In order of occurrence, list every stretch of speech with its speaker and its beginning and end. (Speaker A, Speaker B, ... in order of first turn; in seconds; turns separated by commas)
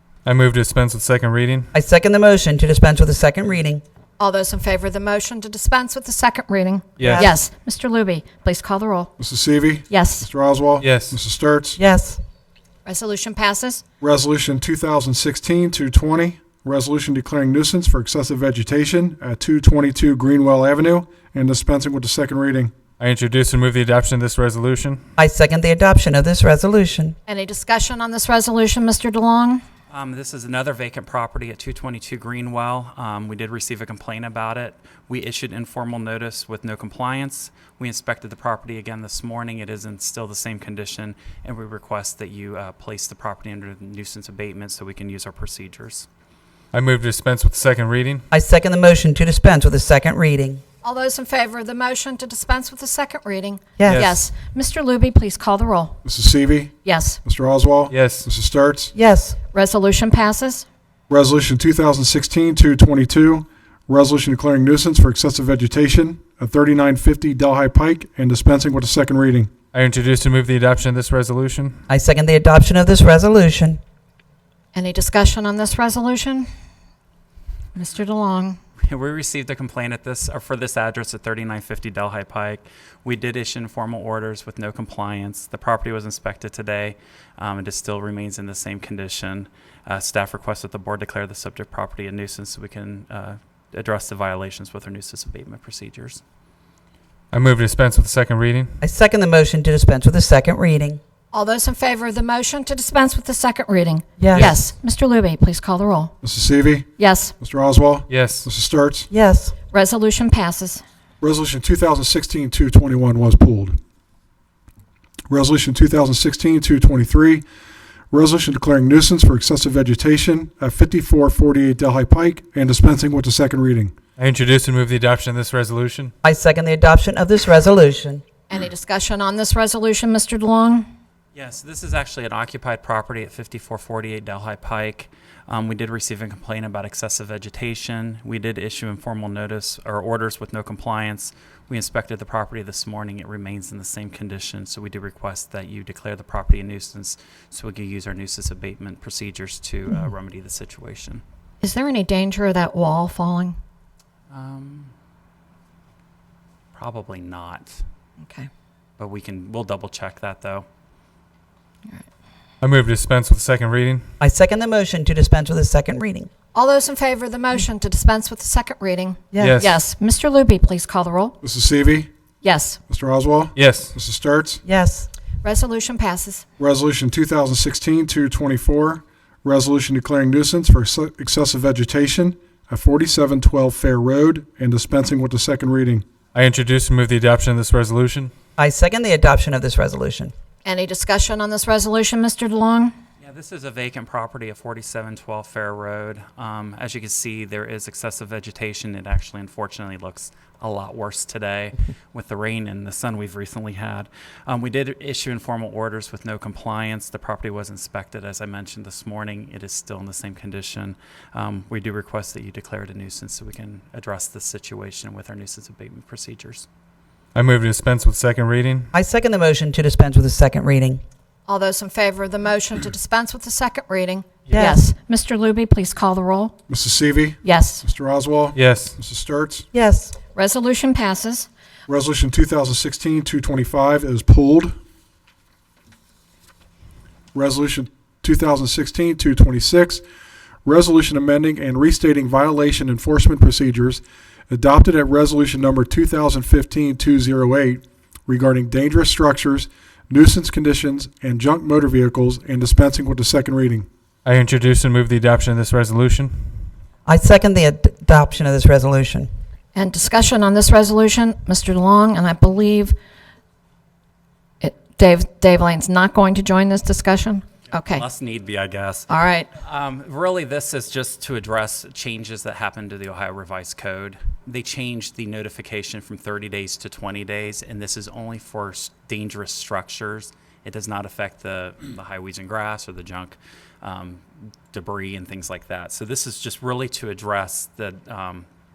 Speaker A: 0.2-1.7, Speaker B: 1.7-3.8, Speaker C: 4.2-9.1, Speaker A: 7.0-7.2, Speaker B: 7.0-7.3, Speaker D: 9.2-11.8, Speaker C: 9.9-10.3, Speaker A: 10.8-11.2, Speaker B: 11.8-12.2, Speaker C: 12.8-13.8, Speaker D: 14.0-22.7, Speaker A: 23.0-25.0, Speaker B: 25.2-27.1, Speaker C: 27.3-29.6, Speaker E: 29.9-46.1, Speaker A: 46.7-48.2, Speaker B: 48.3-50.6, Speaker C: 50.8-56.0, Speaker B: 53.8-54.1, Speaker A: 53.8-54.2, Speaker D: 56.0-58.9, Speaker C: 56.8-57.2, Speaker A: 57.9-58.3, Speaker B: 58.9-59.4, Speaker C: 59.5-60.6, Speaker D: 61.1-69.5, Speaker A: 69.7-71.8, Speaker B: 71.9-73.8, Speaker C: 74.7-76.5, Speaker C: 77.7-78.6, Speaker E: 78.8-96.2, Speaker A: 97.3-98.7, Speaker B: 98.8-101.0, Speaker C: 101.3-106.1, Speaker B: 104.2-104.5, Speaker D: 106.2-106.9, Speaker C: 107.0-107.3, Speaker D: 107.4-109.1, Speaker A: 108.1-108.5, Speaker B: 109.1-109.5, Speaker C: 109.7-110.8, Speaker D: 111.2-113.8, Speaker D: 115.3-117.4, Speaker D: 118.1-124.0, Speaker A: 124.2-126.1, Speaker B: 126.2-128.2, Speaker C: 128.5-130.9, Speaker E: 131.3-151.2, Speaker C: 151.6-153.6, Speaker E: 154.3-154.9, Speaker E: 156.7-157.8, Speaker C: 158.2-158.5, Speaker E: 159.0-160.7, Speaker A: 162.6-164.0, Speaker B: 164.2-166.3, Speaker C: 166.5-171.3, Speaker B: 169.3-169.6, Speaker A: 169.4-169.8, Speaker D: 171.4-172.1, Speaker C: 172.4-172.8, Speaker D: 172.9-174.6, Speaker A: 173.6-173.9, Speaker B: 174.6-175.1, Speaker C: 175.4-176.4, Speaker D: 176.6-186.0, Speaker A: 186.3-188.3, Speaker B: 188.6-190.3, Speaker C: 190.6-192.9, Speaker E: 193.2-216.7, Speaker A: 217.3-218.9, Speaker B: 218.9-221.0, Speaker C: 221.4-226.5, Speaker B: 224.5-224.8, Speaker D: 226.7-229.7, Speaker C: 227.4-227.8, Speaker A: 228.5-229.0, Speaker B: 229.7-230.1, Speaker C: 230.3-231.5, Speaker D: 231.9-234.7, Speaker D: 237.3-240.0, Speaker D: 240.6-253.9, Speaker A: 254.2-256.6, Speaker B: 257.1-259.3, Speaker C: 259.7-262.9, Speaker C: 264.6-268.0, Speaker E: 267.9-288.5, Speaker C: 269.1-269.5